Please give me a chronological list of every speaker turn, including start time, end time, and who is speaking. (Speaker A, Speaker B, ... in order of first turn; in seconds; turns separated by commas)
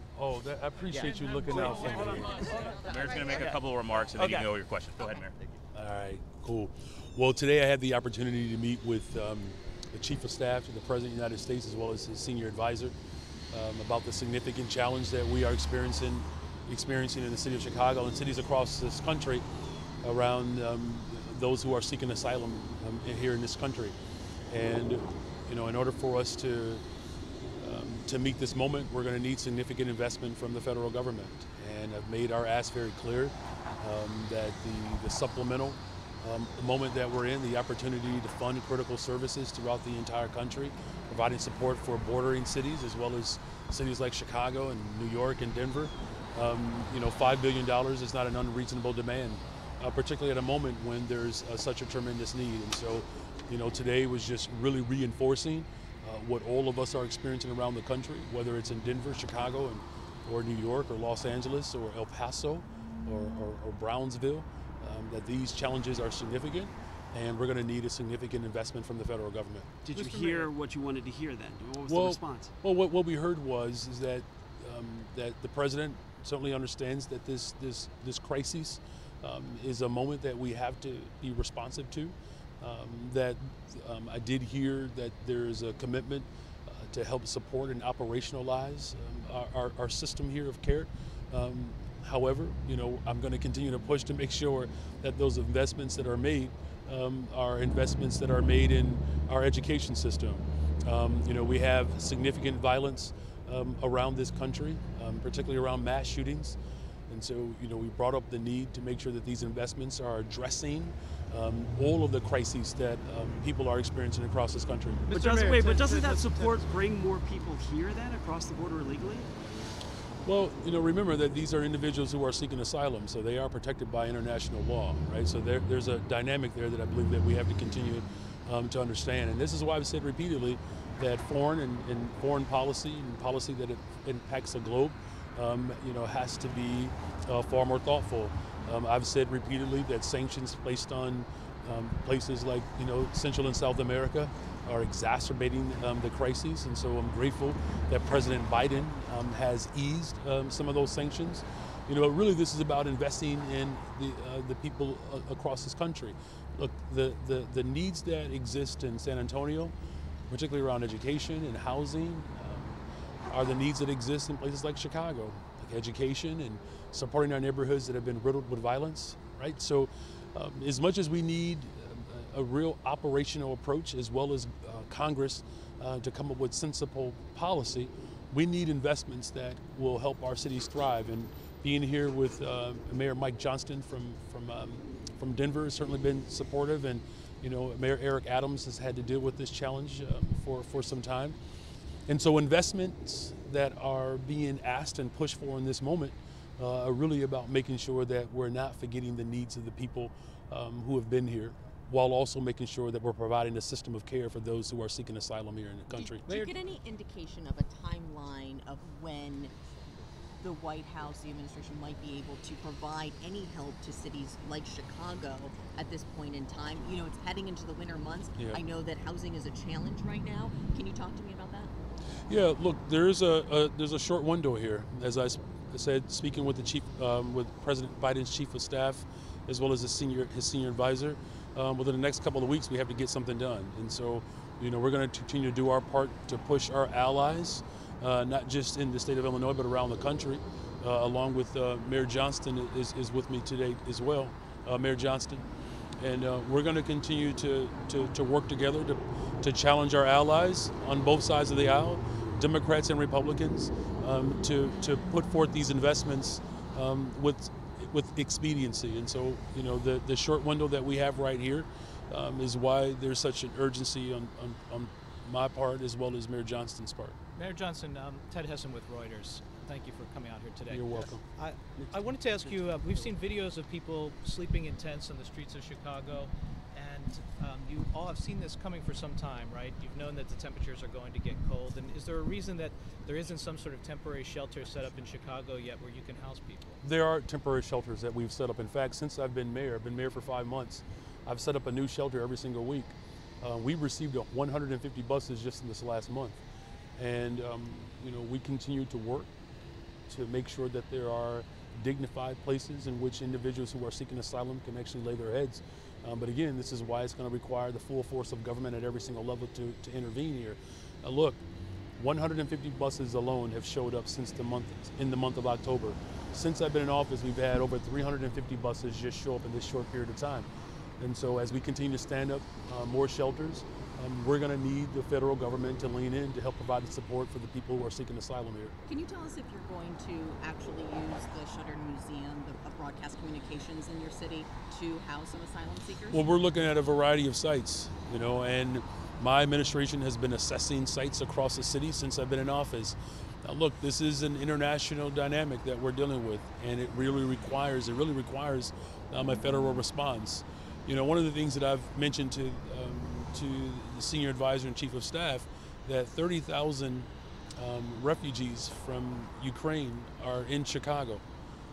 Speaker A: 0.1-2.5, Speaker B: 1.9-4.5, Speaker C: 2.9-5.4, Speaker A: 5.7-12.9, Speaker A: 13.5-19.4, Speaker A: 20.0-23.9, Speaker A: 24.5-26.9, Speaker A: 27.6-69.7, Speaker B: 69.8-72.5, Speaker D: 69.9-70.5, Speaker A: 71.9-106.6, Speaker A: 107.1-115.1, Speaker D: 115.1-116.6, Speaker B: 115.1-119.3, Speaker A: 120.2-159.7, Speaker A: 160.3-191.4, Speaker A: 192.1-206.3, Speaker E: 205.9-209.5, Speaker E: 210.4-221.7, Speaker A: 218.4-218.6, Speaker A: 222.3-245.5, Speaker A: 246.0-267.2, Speaker D: 267.3-286.8, Speaker A: 270.7-271.2, Speaker B: 271.8-273.1, Speaker A: 286.8-296.4, Speaker A: 297.0-299.3, Speaker A: 300.1-311.4, Speaker A: 312.0-320.5, Speaker A: 321.0-328.8, Speaker E: 328.9-336.3, Speaker A: 336.1-361.2